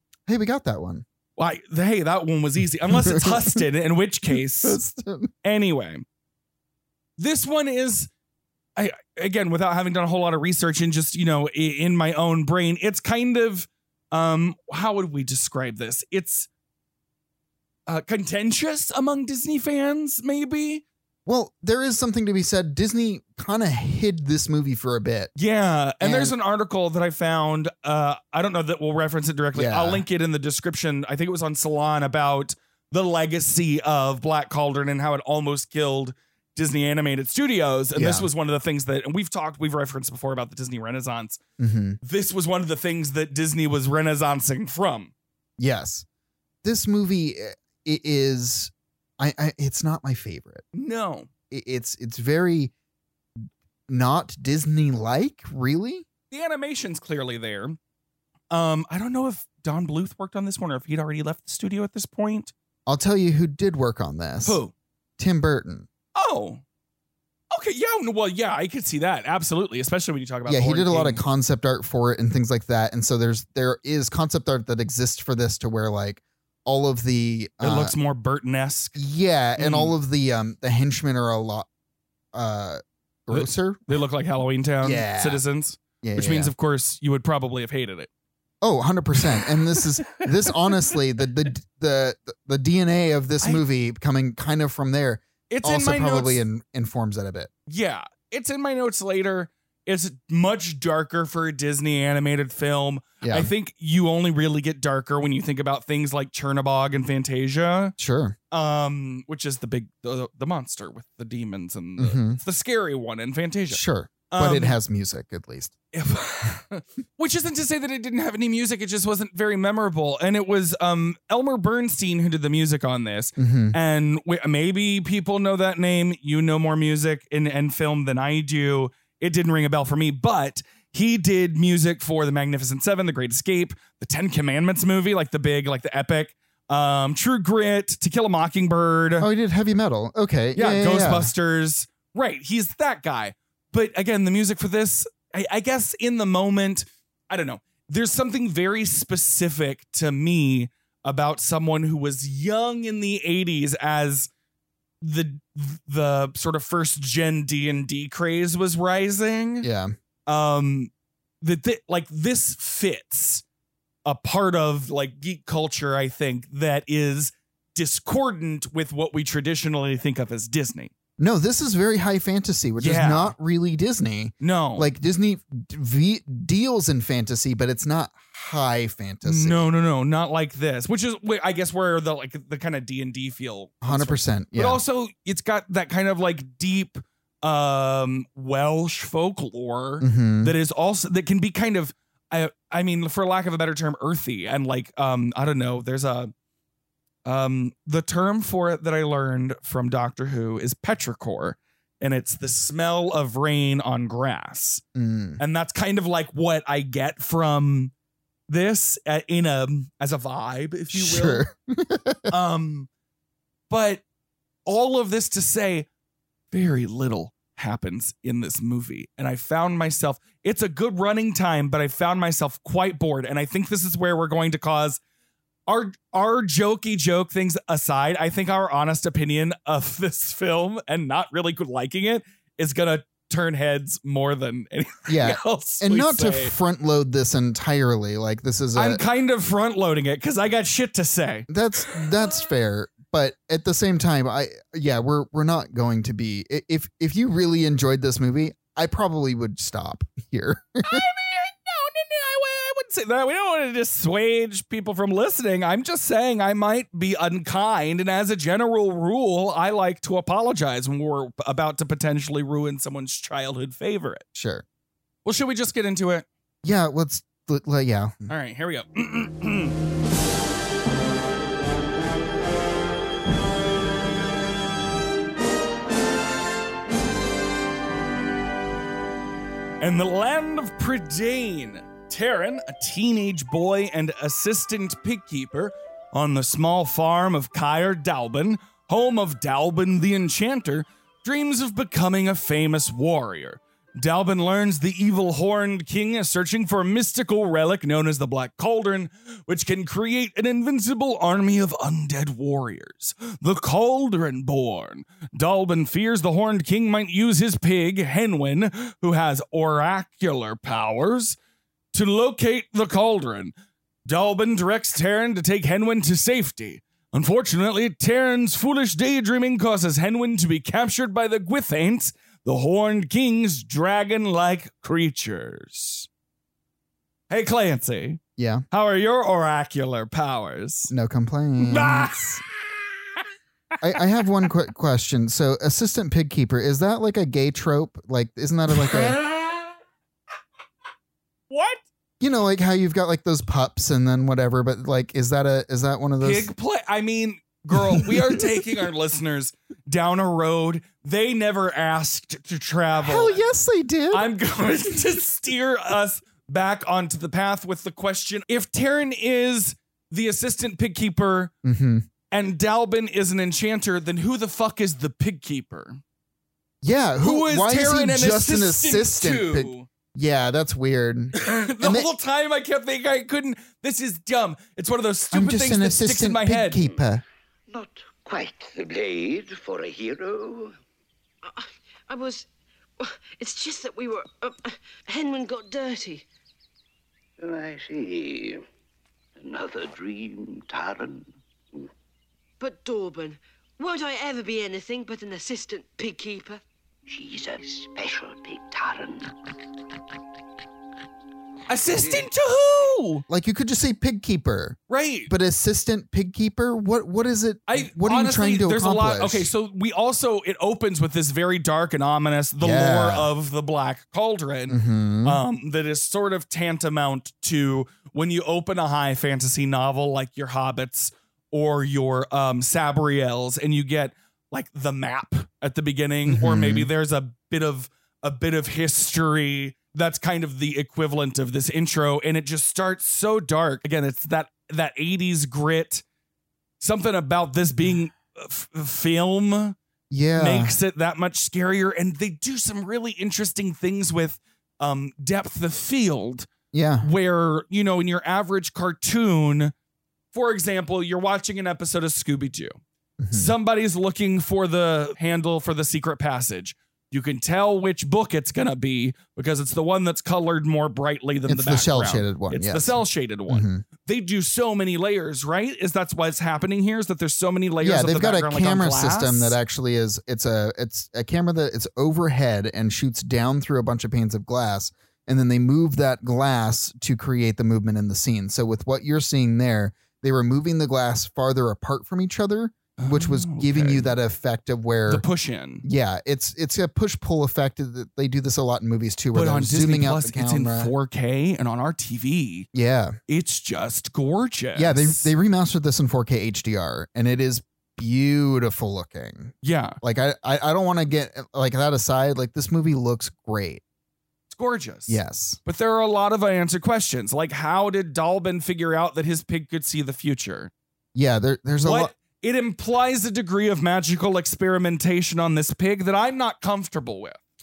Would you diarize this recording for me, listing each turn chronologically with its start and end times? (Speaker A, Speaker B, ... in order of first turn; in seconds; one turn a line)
Speaker A: 0.3-1.1
Speaker B: 1.4-4.8
Speaker A: 2.9-3.6
Speaker A: 4.3-5.3
Speaker B: 5.4-6.0
Speaker B: 7.2-8.1
Speaker B: 8.8-16.5
Speaker B: 17.9-20.8
Speaker A: 21.3-25.3
Speaker B: 25.4-41.4
Speaker A: 26.0-26.3
Speaker A: 29.6-30.0
Speaker A: 38.0-38.3
Speaker A: 41.6-42.0
Speaker B: 42.0-45.1
Speaker A: 45.6-46.1
Speaker A: 46.6-50.6
Speaker B: 50.7-51.3
Speaker A: 51.5-52.7
Speaker A: 53.9-56.1
Speaker B: 56.3-57.8
Speaker B: 58.5-62.5
Speaker A: 62.9-64.6
Speaker B: 64.4-64.7
Speaker A: 65.2-65.9
Speaker B: 66.2-66.6
Speaker B: 67.5-71.2
Speaker A: 70.5-77.9
Speaker B: 77.6-79.0
Speaker A: 79.0-81.7
Speaker B: 79.6-80.0
Speaker A: 82.3-83.8
Speaker B: 83.3-88.1
Speaker A: 84.8-85.4
Speaker A: 86.0-86.5
Speaker A: 88.6-97.5
Speaker B: 95.5-96.4
Speaker B: 97.7-108.0
Speaker A: 103.2-103.5
Speaker A: 108.0-108.4
Speaker B: 108.5-114.8
Speaker A: 112.0-112.4
Speaker A: 113.7-115.8
Speaker B: 115.9-139.3
Speaker A: 123.4-123.8
Speaker A: 139.2-141.3
Speaker B: 140.6-154.3
Speaker B: 155.0-159.7
Speaker A: 159.6-159.9
Speaker B: 160.3-163.4
Speaker B: 164.1-170.9
Speaker A: 171.2-179.6
Speaker B: 172.8-173.3
Speaker B: 174.4-174.9
Speaker B: 179.2-196.3
Speaker A: 183.8-184.8
Speaker A: 190.0-190.6
Speaker B: 197.3-204.8
Speaker A: 204.9-205.4
Speaker B: 205.4-207.9
Speaker B: 208.5-211.4
Speaker A: 210.9-212.3
Speaker B: 212.3-212.9
Speaker B: 213.7-214.0
Speaker B: 214.7-215.9
Speaker B: 216.5-225.0
Speaker B: 225.7-236.5
Speaker A: 235.1-239.0
Speaker B: 238.8-241.5
Speaker A: 241.5-251.0
Speaker B: 250.9-264.2
Speaker A: 264.4-264.6
Speaker B: 265.2-266.3
Speaker A: 266.6-268.3
Speaker B: 268.3-269.8
Speaker B: 279.8-311.4
Speaker B: 311.9-313.5
Speaker B: 314.1-326.1
Speaker B: 327.3-328.2
Speaker A: 328.4-328.6
Speaker B: 328.7-330.9
Speaker A: 330.9-332.4
Speaker B: 331.6-332.4
Speaker A: 333.8-339.2
Speaker B: 338.8-339.6
Speaker B: 341.5-341.8
Speaker A: 342.2-346.5
Speaker B: 346.2-353.4
Speaker A: 347.7-348.7
Speaker A: 353.0-354.3
Speaker B: 354.1-361.5
Speaker A: 361.6-362.1
Speaker B: 362.3-366.0
Speaker A: 366.8-372.1
Speaker B: 367.2-369.9
Speaker B: 371.4-376.8
Speaker A: 375.3-377.2
Speaker C: 377.7-380.8
Speaker D: 381.4-382.5
Speaker D: 383.0-386.3
Speaker C: 387.4-388.6
Speaker C: 389.4-391.9
Speaker D: 392.6-396.6
Speaker C: 397.1-399.3
Speaker B: 401.7-403.2
Speaker C: 402.0-402.3
Speaker A: 403.3-409.5
Speaker B: 404.9-405.3
Speaker B: 407.7-436.0
Speaker A: 412.6-413.3
Speaker A: 414.7-415.4
Speaker A: 426.3-426.9
Speaker B: 436.8-439.8
Speaker A: 440.1-440.8
Speaker B: 440.4-446.5
Speaker A: 446.7-447.1
Speaker B: 447.0-449.7
Speaker B: 450.3-452.8
Speaker A: 453.2-453.5
Speaker B: 453.3-469.6
Speaker A: 461.5-463.0
Speaker A: 463.5-463.8
Speaker A: 467.8-485.2
Speaker B: 483.0-484.2
Speaker B: 485.1-485.8
Speaker A: 485.8-490.9
Speaker B: 489.3-492.7
Speaker A: 492.7-493.2
Speaker B: 493.3-495.3
Speaker A: 494.8-503.8
Speaker B: 499.6-500.0
Speaker B: 504.5-510.7
Speaker A: 505.1-505.6
Speaker A: 511.1-512.1
Speaker B: 511.8-517.4